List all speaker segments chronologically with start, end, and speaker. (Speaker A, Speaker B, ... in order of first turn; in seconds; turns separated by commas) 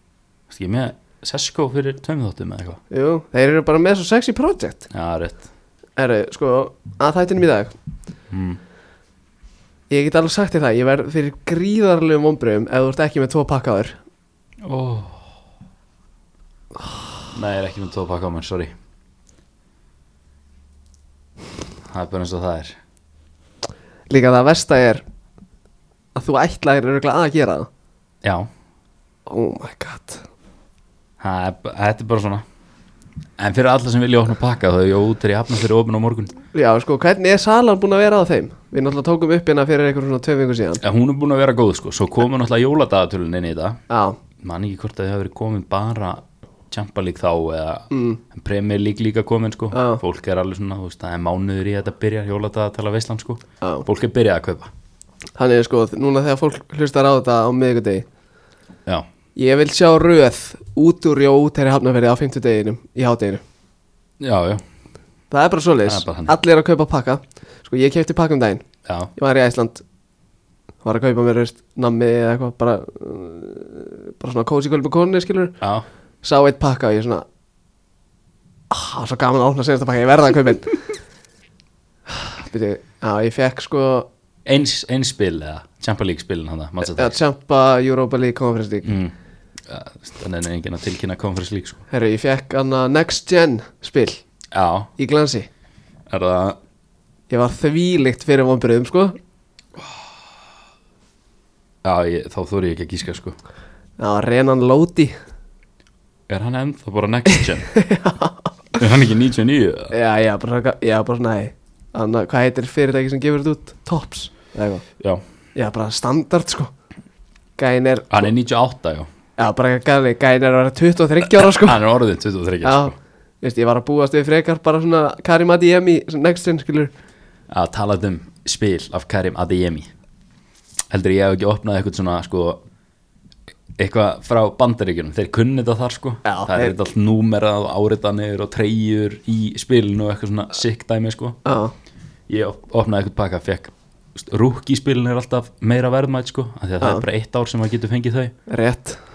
Speaker A: 0.5-2.8, Speaker B: 2.9-4.9, Speaker A: 4.9-5.4, Speaker B: 6.0-7.7, Speaker A: 8.3-8.6, Speaker B: 9.9-14.0, Speaker A: 14.6-15.3, Speaker A: 17.3-18.7, Speaker A: 21.9-22.8, Speaker B: 24.1-25.0, Speaker B: 26.1-27.7, Speaker A: 28.2-28.5, Speaker B: 29.3-30.3, Speaker A: 31.2-32.5, Speaker A: 33.4-36.4, Speaker B: 36.5-40.8, Speaker A: 40.8-43.8, Speaker B: 43.9-44.2, Speaker A: 44.4-54.7, Speaker B: 47.9-48.2, Speaker B: 49.7-50.0, Speaker B: 55.4-58.1, Speaker B: 59.4-63.4, Speaker A: 64.2-64.6, Speaker B: 65.3-68.6, Speaker A: 65.9-66.4, Speaker A: 68.9-69.1, Speaker B: 69.2-69.8, Speaker B: 70.8-75.6, Speaker A: 75.6-75.9, Speaker B: 76.2-77.2, Speaker B: 78.7-80.8, Speaker B: 82.1-84.1, Speaker A: 84.5-87.2, Speaker B: 86.8-88.9, Speaker A: 88.8-89.1, Speaker A: 89.7-91.8, Speaker B: 91.9-94.2, Speaker A: 94.5-94.9, Speaker B: 95.0-95.5, Speaker A: 96.1-96.6, Speaker B: 97.3-99.2, Speaker A: 101.8-103.4, Speaker B: 104.0-105.1, Speaker A: 106.3-107.7, Speaker B: 107.7-108.5, Speaker A: 108.8-109.9, Speaker B: 109.9-114.8, Speaker B: 115.5-116.7, Speaker B: 117.6-118.3, Speaker A: 118.1-119.1, Speaker B: 119.4-121.8, Speaker A: 121.3-123.0, Speaker B: 122.6-126.9, Speaker A: 127.5-129.9, Speaker A: 130.9-132.6, Speaker A: 133.8-141.4, Speaker B: 136.3-136.8, Speaker B: 141.4-141.7, Speaker A: 142.3-148.3, Speaker B: 148.5-149.0